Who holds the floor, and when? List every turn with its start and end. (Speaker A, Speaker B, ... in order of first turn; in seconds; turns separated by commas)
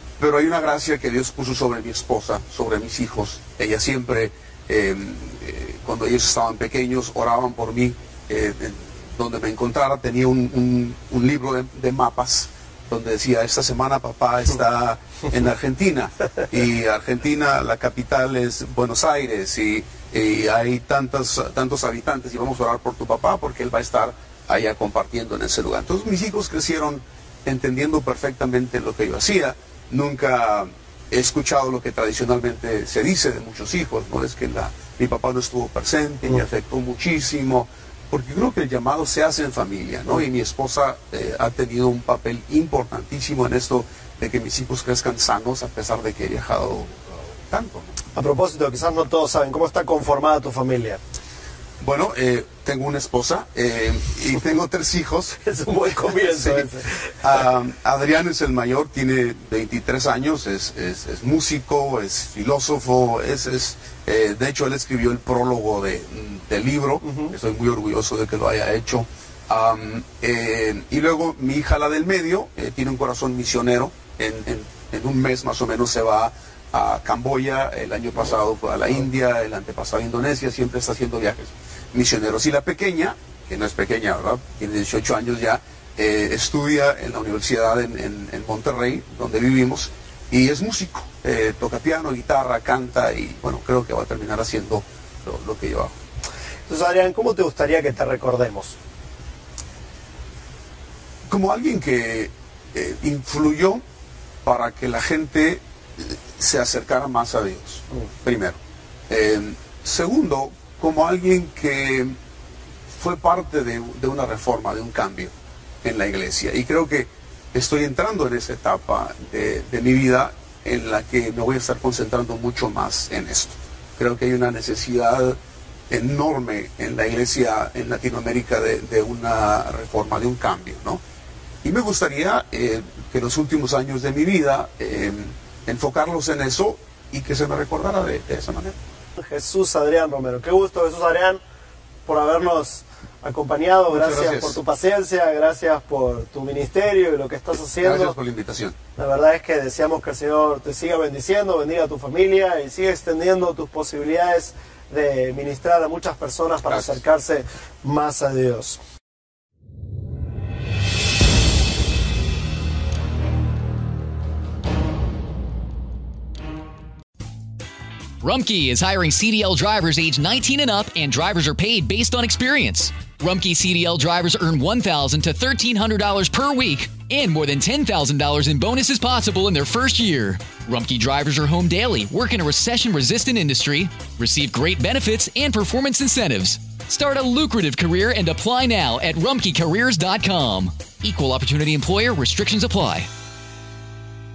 Speaker A: 0.2-48.0, Speaker B: 48.1-51.0, Speaker A: 51.8-56.7, Speaker B: 55.4-57.1, Speaker A: 57.2-96.0, Speaker B: 96.7-98.8, Speaker A: 101.3-103.8, Speaker A: 104.5-108.6, Speaker A: 109.1-112.2, Speaker A: 113.0-125.4, Speaker A: 125.9-131.0, Speaker A: 131.6-138.8, Speaker B: 139.2-141.4, Speaker B: 142.1-148.2, Speaker A: 143.9-144.6, Speaker A: 147.8-148.8, Speaker B: 149.0-158.8, Speaker C: 168.2-193.1